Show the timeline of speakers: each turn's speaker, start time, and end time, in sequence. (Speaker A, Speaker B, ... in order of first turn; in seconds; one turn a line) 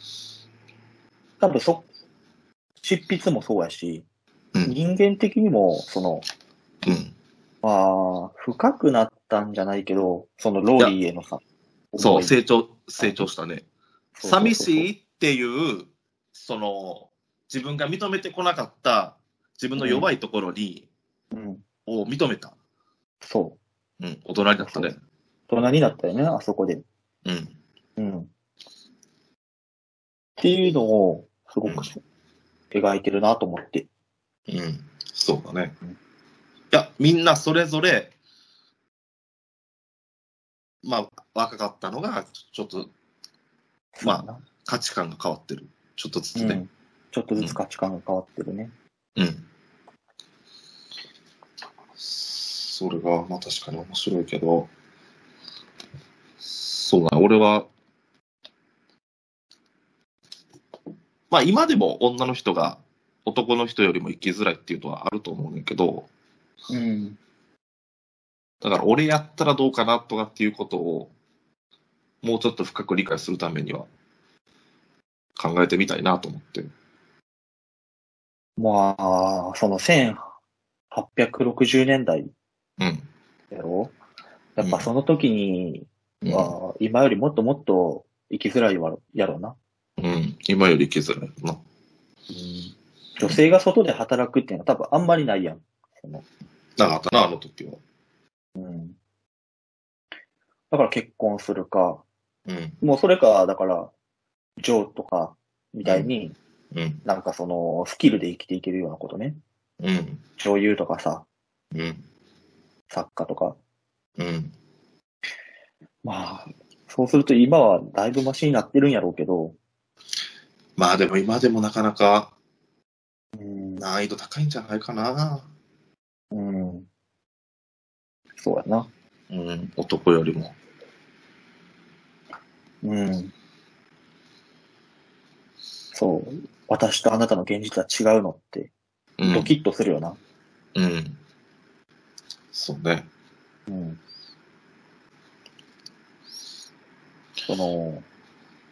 Speaker A: 1.4-1.9
Speaker A: 2.8-4.0
Speaker A: 4.6-6.2
Speaker B: 6.8-7.1
Speaker A: 7.6-11.4
Speaker A: 11.9-12.3
Speaker B: 12.0-13.7
Speaker A: 13.0-13.3
Speaker A: 14.1-14.9
Speaker B: 14.2-20.9
Speaker A: 19.8-20.1
Speaker A: 21.3-21.6
Speaker B: 21.9-22.5
Speaker A: 23.2-23.6
Speaker B: 24.0-25.0
Speaker A: 24.6-24.9
Speaker A: 25.5-26.8
Speaker B: 27.2-27.6
Speaker A: 28.0-28.3
Speaker A: 30.4-32.0
Speaker A: 32.7-33.9
Speaker B: 34.5-35.7
Speaker B: 36.7-38.1
Speaker B: 40.8-42.9
Speaker A: 44.0-44.4
Speaker B: 44.0-46.6
Speaker A: 46.4-48.7
Speaker B: 49.1-49.5
Speaker B: 52.0-54.7
Speaker B: 56.4-57.7
Speaker B: 61.3-66.1
Speaker A: 66.7-67.2
Speaker B: 68.6-71.1
Speaker B: 72.2-73.9
Speaker B: 75.4-76.7
Speaker A: 78.6-80.3
Speaker A: 80.9-82.3
Speaker B: 82.8-83.1
Speaker A: 83.5-83.9
Speaker A: 84.6-89.6
Speaker B: 84.6-84.9
Speaker B: 86.2-86.5
Speaker B: 90.0-91.6
Speaker A: 92.3-96.2
Speaker B: 96.8-97.8
Speaker A: 98.5-99.0
Speaker A: 100.7-102.0
Speaker B: 102.5-102.8
Speaker A: 102.8-103.9
Speaker A: 104.6-106.4
Speaker B: 105.8-106.1
Speaker B: 106.7-107.0
Speaker A: 107.0-109.4
Speaker B: 109.8-110.2
Speaker A: 110.4-111.3
Speaker B: 111.7-112.0
Speaker A: 112.9-113.6
Speaker B: 114.2-114.5
Speaker A: 116.0-119.6
Speaker B: 120.8-122.3
Speaker A: 123.3-123.8
Speaker B: 123.8-125.5
Speaker A: 126.3-126.9
Speaker A: 128.3-128.9
Speaker B: 129.3-130.6
Speaker A: 132.8-133.3
Speaker A: 135.9-138.7
Speaker B: 139.2-139.5
Speaker A: 139.2-140.2
Speaker B: 140.7-141.2
Speaker B: 142.5-143.1
Speaker A: 143.7-144.0
Speaker A: 147.4-148.0